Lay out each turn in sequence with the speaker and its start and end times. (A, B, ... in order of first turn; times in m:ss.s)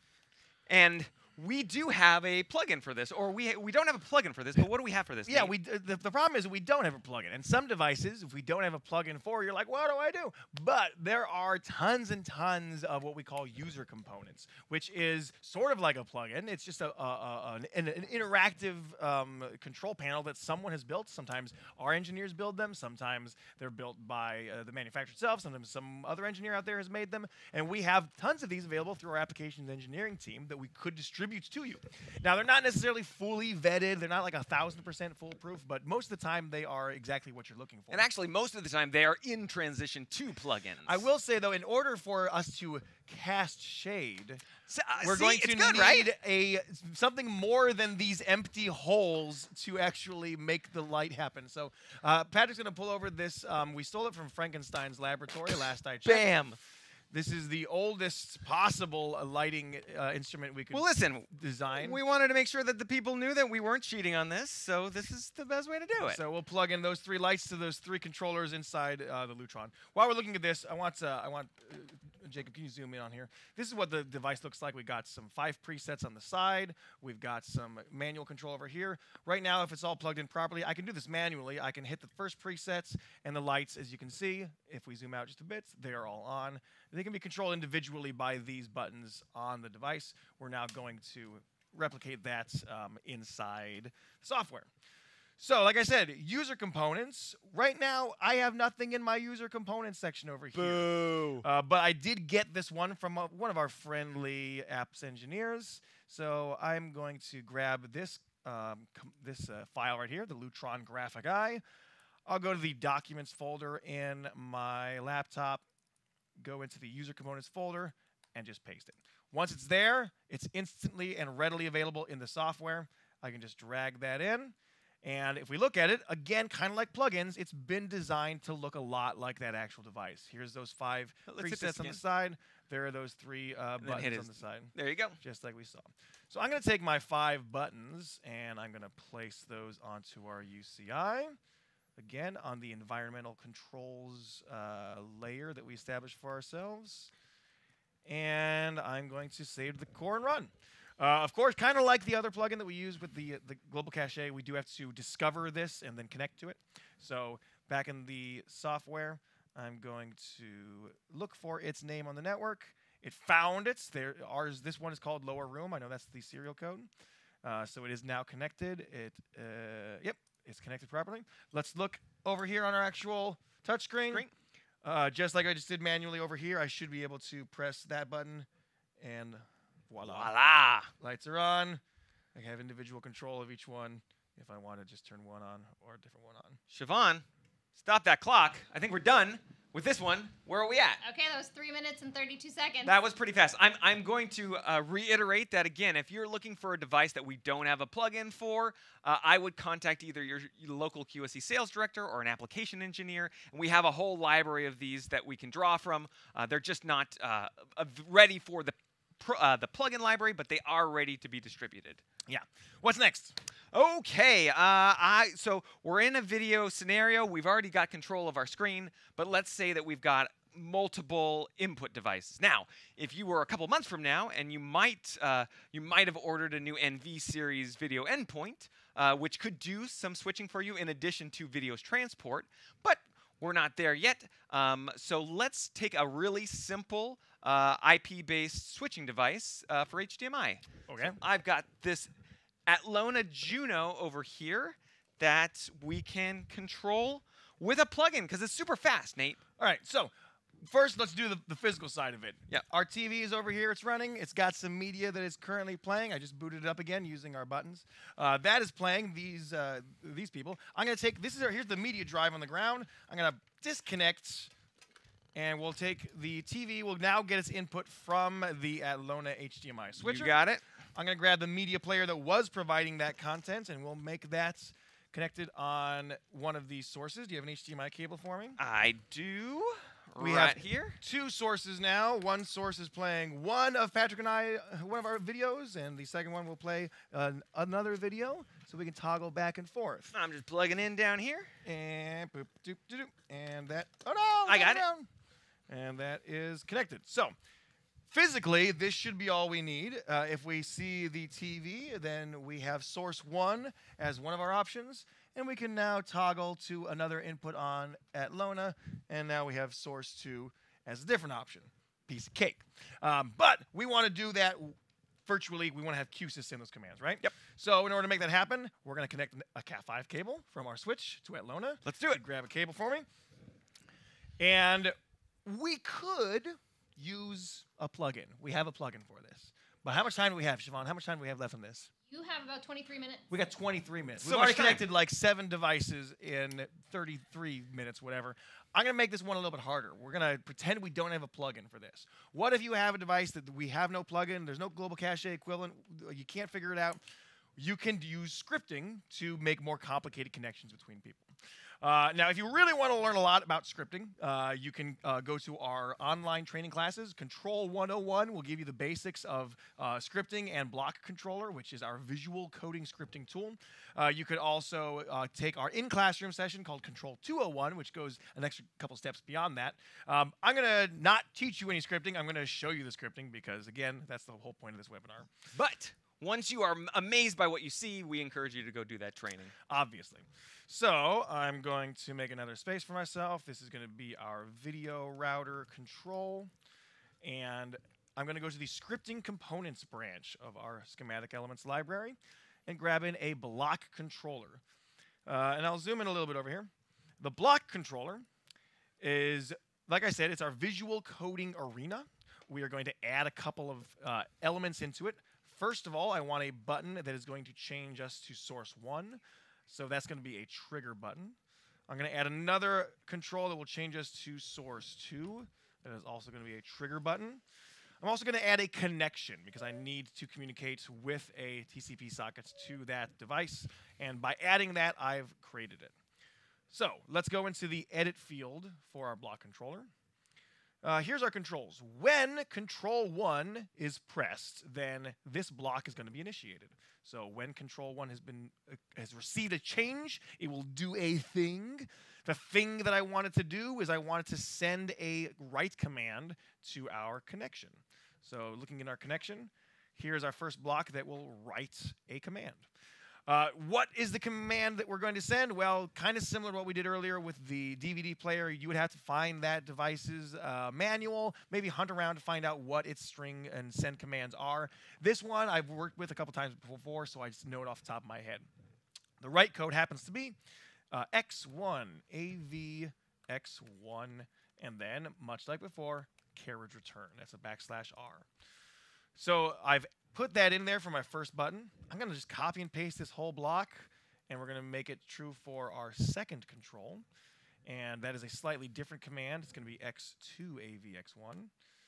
0:00.7-0:05.5 A
0:05.3-0:38.1 B
0:37.9-0:41.0 A
0:40.8-0:44.4 B
0:44.7-0:46.1 A
0:45.0-0:56.3 B
0:56.0-0:56.6 A
0:57.1-1:02.0 B
1:00.7-1:06.2 A
1:06.0-1:34.7 B
1:35.4-1:51.6 B
1:40.5-1:41.4 A
1:52.2-1:55.6 B
1:56.4-2:21.4 B
2:11.2-2:12.0 A
2:13.8-2:15.2 A
2:22.0-2:27.1 B
2:28.0-2:46.9 B
2:47.4-2:54.2 B
2:54.8-2:58.5 B
2:59.0-3:00.3 B
3:00.0-3:00.9 A
3:01.0-3:01.8 B
3:02.3-3:06.6 B
3:06.7-3:07.2 A
3:07.8-3:11.0 A
3:11.0-3:12.9 C
3:12.8-3:32.0 A
3:32.3-3:33.3 B
3:33.7-4:02.1 A
4:00.9-4:01.2 B
4:02.7-4:09.4 A
4:09.6-4:24.5 B
4:25.3-4:30.4 B
4:30.0-4:30.6 A
4:30.9-4:38.6 B
4:38.6-4:41.0 A
4:40.2-4:50.1 B
4:50.1-4:51.5 A
4:51.6-4:55.1 B
4:54.4-4:54.8 A
4:55.7-4:57.3 B
4:58.1-5:23.0 B
5:21.8-5:22.2 A
5:24.4-5:31.9 B
5:32.1-5:33.2 C
5:33.3-5:47.0 B
5:34.2-5:34.8 A
5:47.6-6:15.3 B
6:15.5-6:19.5 A
6:19.7-6:26.5 B
6:27.2-6:34.6 B
6:35.2-6:38.2 B
6:39.0-6:51.4 B
6:51.9-6:57.4 B
6:58.0-7:05.9 B
7:06.7-7:09.9 B
7:10.8-7:32.6 B
7:33.3-7:48.5 B
7:49.2-7:50.4 B
7:50.9-7:58.2 B
7:59.1-8:07.0 B
8:07.6-8:11.5 B